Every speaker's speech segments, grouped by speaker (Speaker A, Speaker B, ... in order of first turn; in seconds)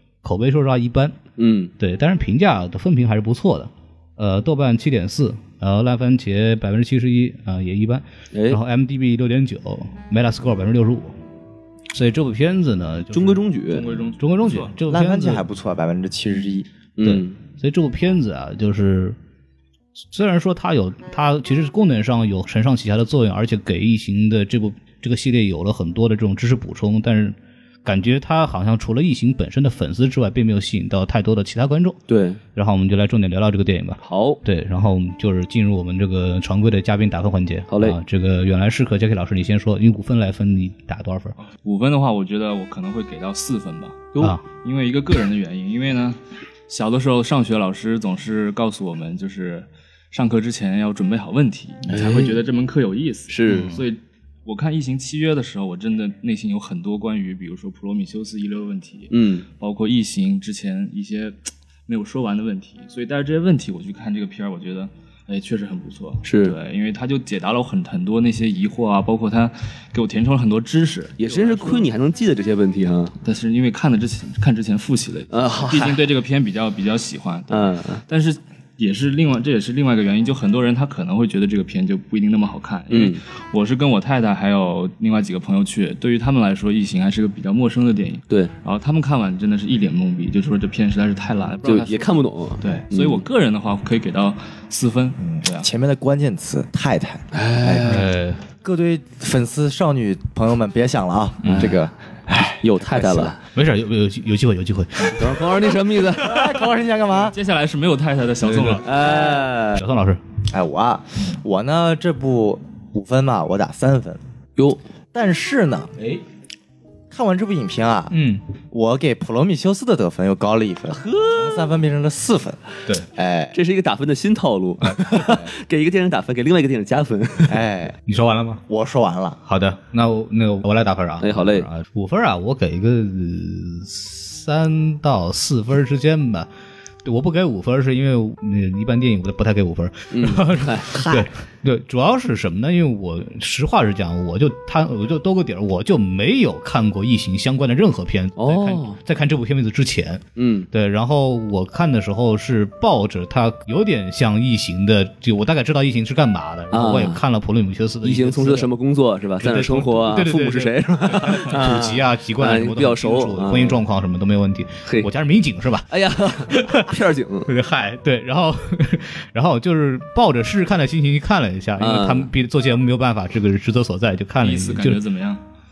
Speaker A: 0.2-1.2, 1.8-11.1, 11.9-13.4, 14.2-15.4, 17.0-19.2, 20.1-32.0, 32.5-41.4, 53.5-53.8, 97.8-98.4, 101.4-101.8, 103.5-105.8, 108.4-108.8, 109.7-110.2, 118.1-118.4, 124.8-125.3, 128.1-128.6, 129.5-136.5, 137.0-158.7, 159.4-165.9, 166.5-166.9, 167.5-175.0
Speaker B: 1.4-1.7, 8.3-8.6, 13.1-13.9, 17.0-17.4, 32.1-32.4, 34.0-34.4, 37.7-38.0, 51.9-52.4, 53.3-53.7, 59.1-59.5, 66.2-66.6, 71.2-73.1, 75.3-76.0, 77.5-78.0, 82.9-83.2, 91.7-93.2, 97.3-98.1, 101.5-101.8, 102.6-103.4, 105.1-106.4, 108.8-109.8, 120.9-121.8, 123.5-127.7, 131.2-131.7, 140.1-140.9, 148.4-149.0, 150.4-150.7, 156.7-157.2, 158.0-163.8, 165.9-167.5, 171.8-172.3
Speaker C: 13.7-14.7, 41.4-46.2, 46.7-71.9, 73.2-95.7, 107.3-108.9, 174.4-175.4
Speaker D: 14.9-16.7, 95.3-98.0, 98.6-103.3, 106.1-107.4, 109.1-109.4, 110.5-114.2, 115.1-115.9, 117.1-118.2, 118.7-123.5, 125.2-125.5, 127.5-128.0, 128.7-129.4, 140.9-141.3